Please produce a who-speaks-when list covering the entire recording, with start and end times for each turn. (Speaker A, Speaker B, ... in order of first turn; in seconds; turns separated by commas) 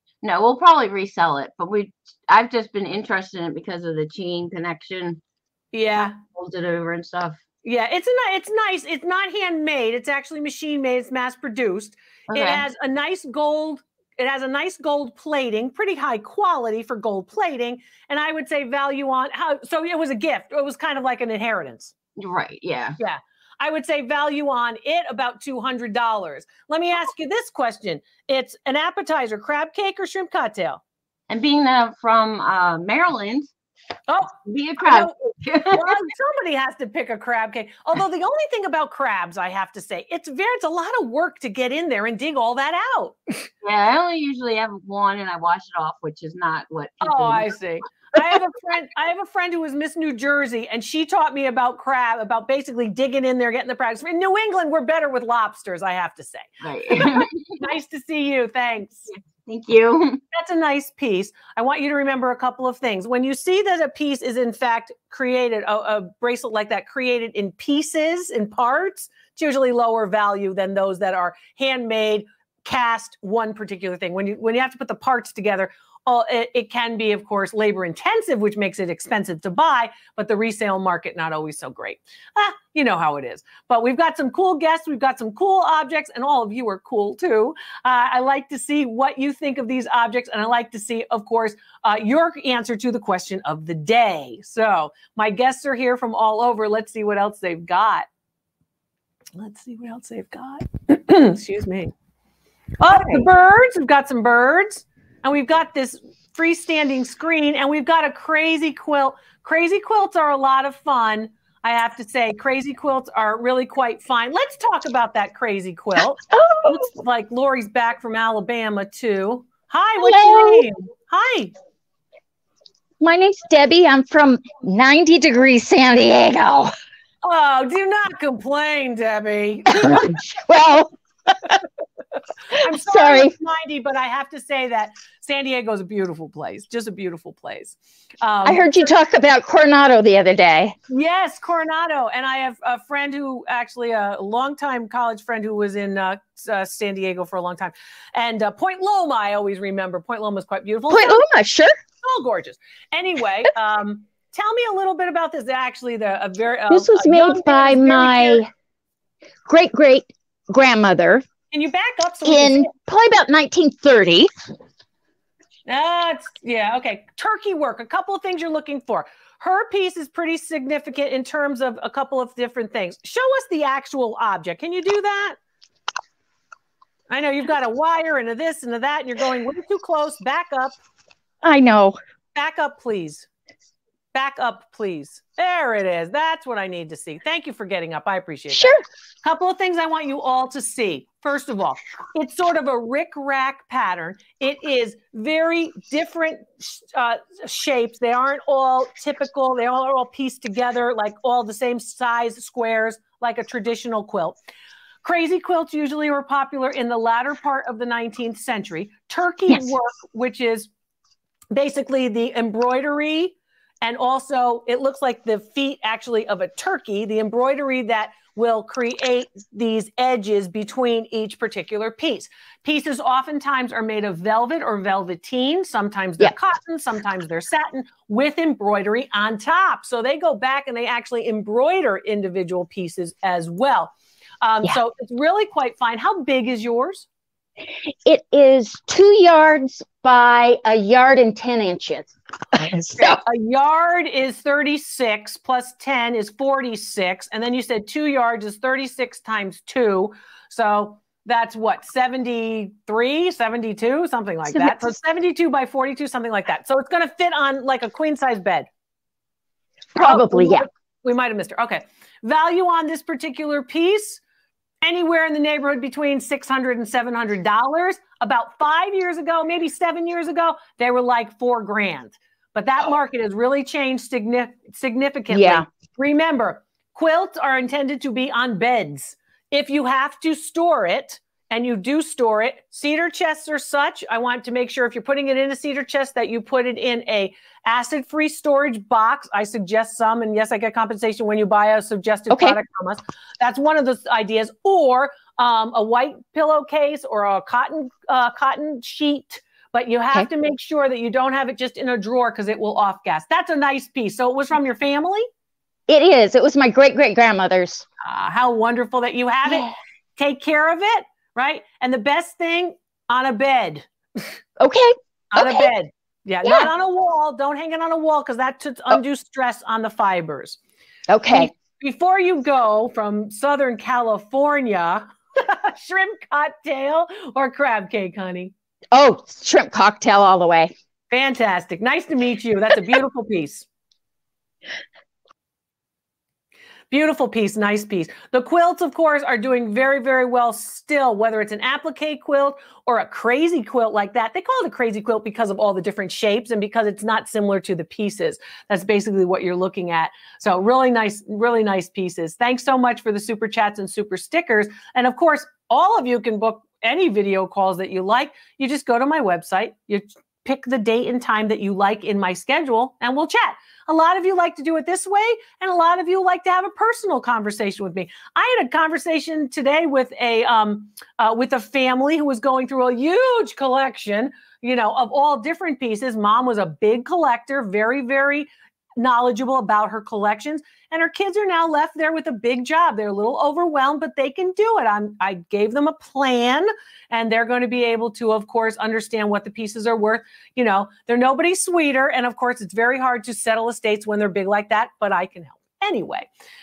Speaker A: 0.2-5.2, Speaker B: 5.7-6.2, Speaker A: 6.2-7.4, Speaker B: 7.6-21.9, Speaker A: 12.3-12.7, Speaker A: 22.2-23.0, Speaker B: 23.0-30.8, Speaker A: 31.3-33.5, Speaker B: 34.1-35.1, Speaker A: 34.5-36.0, Speaker B: 35.7-43.5, Speaker A: 43.6-47.5, Speaker B: 47.0-59.1, Speaker A: 56.6-57.5, Speaker A: 59.4-60.2, Speaker B: 60.3-98.1, Speaker B: 99.4-101.9, Speaker B: 102.8-121.5, Speaker C: 116.3-116.8, Speaker C: 120.0-120.7, Speaker C: 123.0-126.7, Speaker B: 127.2-130.2, Speaker C: 129.8-130.9, Speaker B: 132.5-138.9, Speaker C: 132.7-133.3, Speaker C: 138.4-140.8, Speaker B: 140.9-151.3, Speaker C: 150.9-151.8, Speaker B: 152.0-158.4, Speaker C: 156.7-158.5, Speaker C: 159.5-161.3, Speaker B: 161.5-162.7, Speaker C: 162.2-164.3, Speaker B: 165.7-175.4, Speaker B: 177.1-180.8, Speaker C: 181.4-182.0, Speaker B: 182.3-183.3, Speaker B: 184.1-188.7, Speaker C: 188.5-188.8, Speaker B: 189.2-204.4, Speaker B: 205.0-210.7, Speaker B: 211.5-237.1, Speaker C: 238.1-243.2, Speaker B: 243.0-258.7, Speaker C: 254.5-254.9, Speaker C: 259.9-260.7, Speaker B: 260.0-264.2, Speaker B: 264.8-305.3, Speaker C: 275.3-275.6, Speaker C: 292.3-292.6, Speaker C: 305.9-307.9, Speaker B: 308.0-314.3, Speaker C: 309.4-309.8, Speaker C: 314.6-315.7, Speaker B: 315.3-320.6, Speaker C: 316.4-316.7, Speaker C: 321.1-321.5, Speaker B: 321.3-328.5, Speaker C: 328.9-330.7, Speaker B: 331.1-333.7, Speaker B: 336.9-396.3